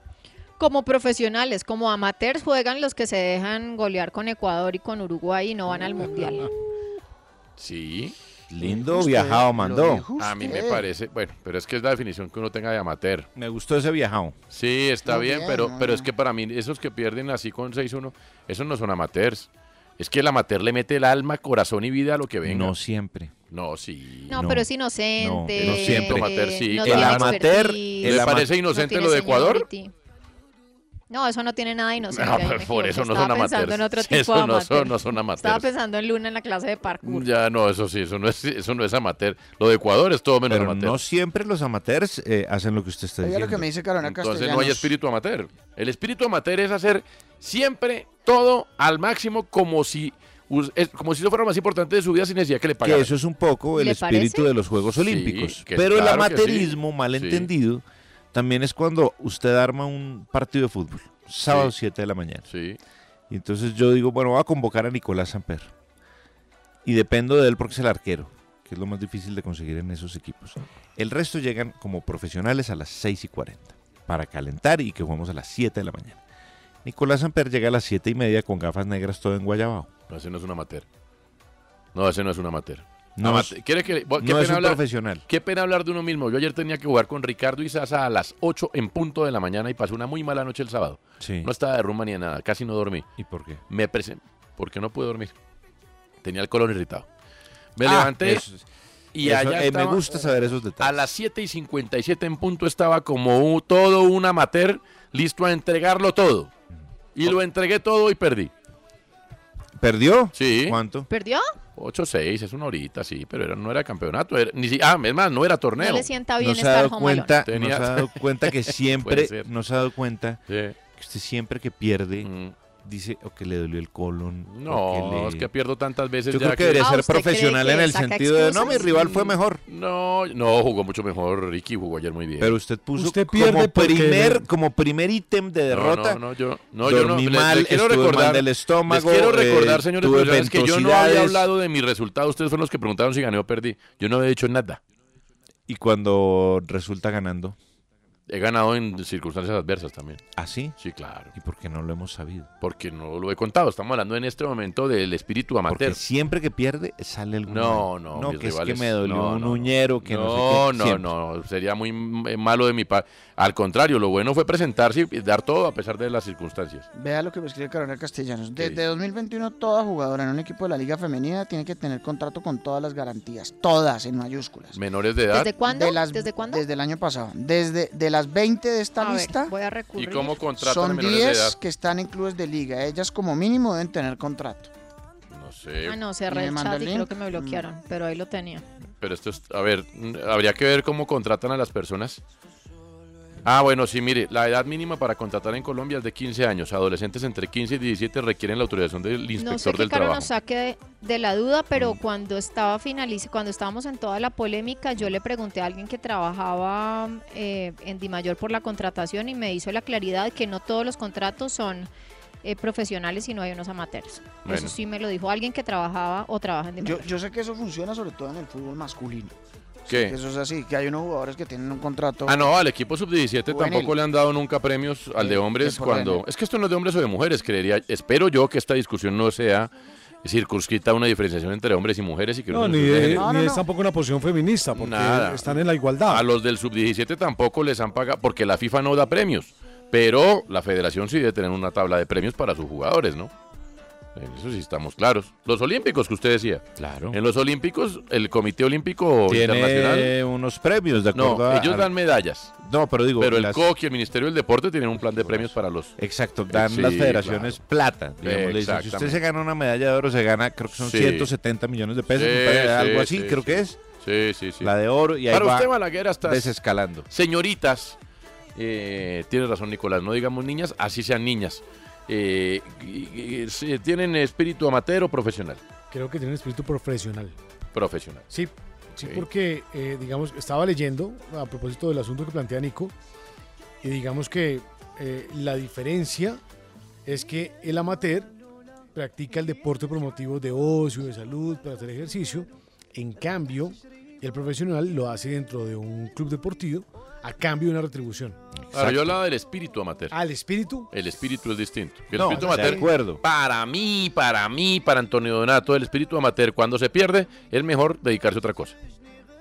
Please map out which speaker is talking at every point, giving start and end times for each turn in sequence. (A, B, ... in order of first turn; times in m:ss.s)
0:00.6-0:06.5 A
0:07.6-0:08.2 B
0:08.5-0:10.0 C
0:08.6-0:10.8 D
0:10.2-0:13.3 B
0:13.4-0:14.4 C
0:14.5-0:19.5 B
0:15.1-0:16.1 D
0:20.0-0:22.7 B
0:22.4-0:23.3 C
0:23.5-0:24.4 B
0:24.3-0:29.9 A
0:24.3-0:24.7 C
0:25.2-0:28.5 C
0:25.6-0:27.5 B
0:28.0-0:29.7 B
0:31.1-0:37.3 A
0:32.1-0:35.7 B
0:37.0-0:41.0 B
0:40.5-0:43.7 C
0:43.2-0:44.9 D
0:44.0-0:53.1 B
0:52.8-1:02.5 C
0:53.8-0:54.5 A
0:55.0-0:57.5 B
1:01.5-1:01.7 B
1:02.5-1:02.8 B
1:03.3-1:05.7 C
1:06.8-1:16.2 C
1:16.8-1:19.9 C
1:20.1-1:20.8 B
1:22.0-1:33.1 B
1:23.2-1:23.6 C
1:24.2-1:25.2 C
1:31.2-1:31.5 C
1:33.2-1:33.6 C
1:33.7-1:35.3 B
1:36.2-1:37.1 B
1:37.8-1:38.4 B
1:37.8-1:38.6 C
1:39.1-1:46.5 B
1:39.2-1:41.1 C
1:47.2-1:48.5 B
1:49.8-1:51.1 C
1:50.4-1:50.8 B
1:51.1-1:51.4 A
1:51.8-1:56.1 B
1:55.8-1:57.4 A
1:56.4-2:00.4 C
1:57.5-1:59.5 B
2:00.5-2:00.8 B
2:01.0-2:02.3 C
2:02.2-2:02.6 B
2:02.8-2:05.5 C
2:04.5-2:06.9 B
2:06.3-2:09.6 C
2:06.8-2:09.2 A
2:09.7-2:12.6 B
2:12.4-2:16.2 C
2:13.0-2:14.4 E
2:15.7-2:24.8 B
2:16.8-2:21.5 C
2:25.7-2:27.6 C
2:28.3-2:30.2 B
2:30.4-2:30.8 C
2:30.8-2:31.3 B
2:31.3-2:32.5 C
2:32.6-2:36.0 B
2:35.7-2:41.1 C
2:37.5-2:46.9 B
2:46.9-2:54.8 D
2:48.6-2:48.8 B
2:54.7-2:55.5 B
2:55.3-2:56.6 A
2:55.6-2:59.5 D
2:59.0-3:00.4 A
3:00.0-3:01.6 B
3:00.6-3:04.7 D
3:05.3-3:06.0 B
3:05.9-3:08.6 A
3:06.3-3:07.7 D
3:09.0-3:12.2 B
3:13.4-3:20.3 B
3:19.4-3:31.9 A
3:32.4-3:37.1 A
3:34.4-3:34.7 B
3:36.8-3:39.3 D
3:39.9-3:42.5 D
3:39.9-3:40.2 B
3:42.3-3:49.7 B
3:43.5-3:43.9 D
3:45.2-3:46.2 D
3:50.2-3:53.3 B
3:52.5-3:56.3 E
3:53.1-3:53.6 D
3:54.7-4:03.3 B
4:04.2-4:10.1 B
4:06.8-4:07.2 C
4:09.3-4:11.9 C
4:11.1-4:12.5 B
4:12.6-4:13.6 C
4:13.2-4:15.9 B
4:15.2-4:23.8 C
4:16.5-4:17.6 B
4:18.2-4:19.2 B
4:20.8-4:21.3 B
4:22.1-4:24.7 B
4:24.6-4:25.7 C
4:25.3-4:26.6 B
4:26.2-4:27.1 C
4:27.1-4:28.0 B
4:28.6-4:35.6 B
4:35.9-4:37.4 F
4:37.7-4:38.3 B
4:38.3-4:42.9 F
4:39.0-4:39.3 B
4:43.8-4:46.4 F
4:47.1-4:48.3 F
4:49.0-4:58.4 F
4:58.6-4:59.2 C
4:58.7-5:00.2 B
5:00.1-5:00.9 F
5:00.9-5:08.8 B
5:02.1-5:03.2 C
5:02.4-5:02.8 F